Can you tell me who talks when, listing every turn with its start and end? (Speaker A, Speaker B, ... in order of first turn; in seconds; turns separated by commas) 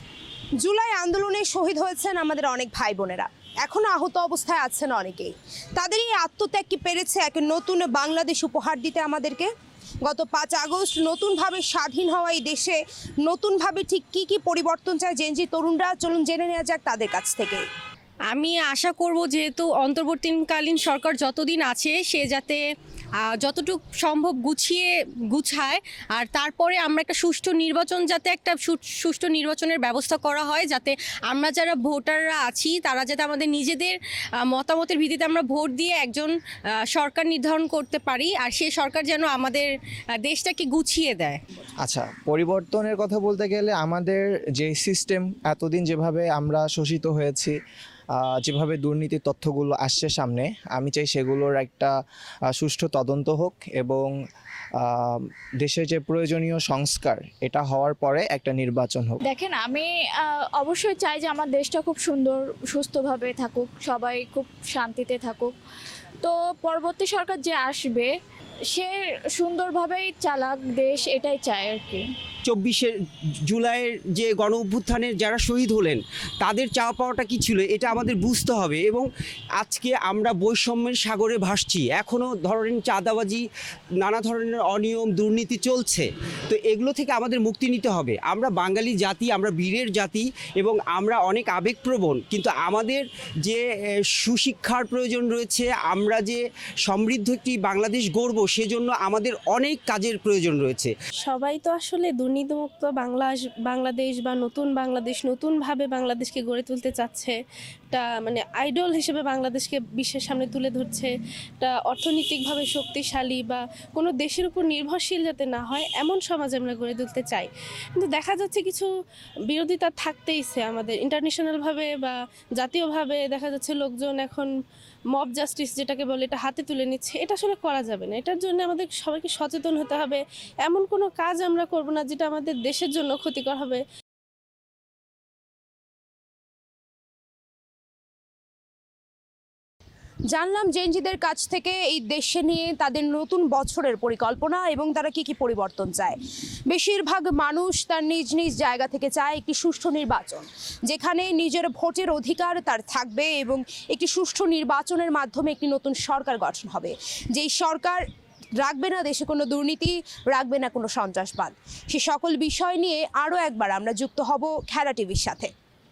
Speaker A: 0.6-9.5, Speaker A: 10.0-17.7, Speaker B: 18.3-22.6, Speaker B: 23.4-36.3, Speaker B: 36.9-39.7, Speaker B: 40.2-41.4, Speaker C: 41.8-47.6, Speaker C: 48.1-52.0, Speaker C: 52.5-54.1, Speaker C: 54.8-59.2, Speaker D: 59.2-59.9, Speaker D: 60.6-65.5, Speaker D: 66.2-68.1, Speaker D: 68.7-72.0, Speaker E: 72.5-72.9, Speaker E: 73.5-83.5, Speaker E: 84.0-101.0, Speaker F: 101.2-107.4, Speaker F: 107.9-118.9, Speaker F: 119.5-124.5, Speaker F: 125.1-133.8, Speaker A: 140.3-146.2, Speaker A: 146.7-158.0, Speaker A: 158.6-165.5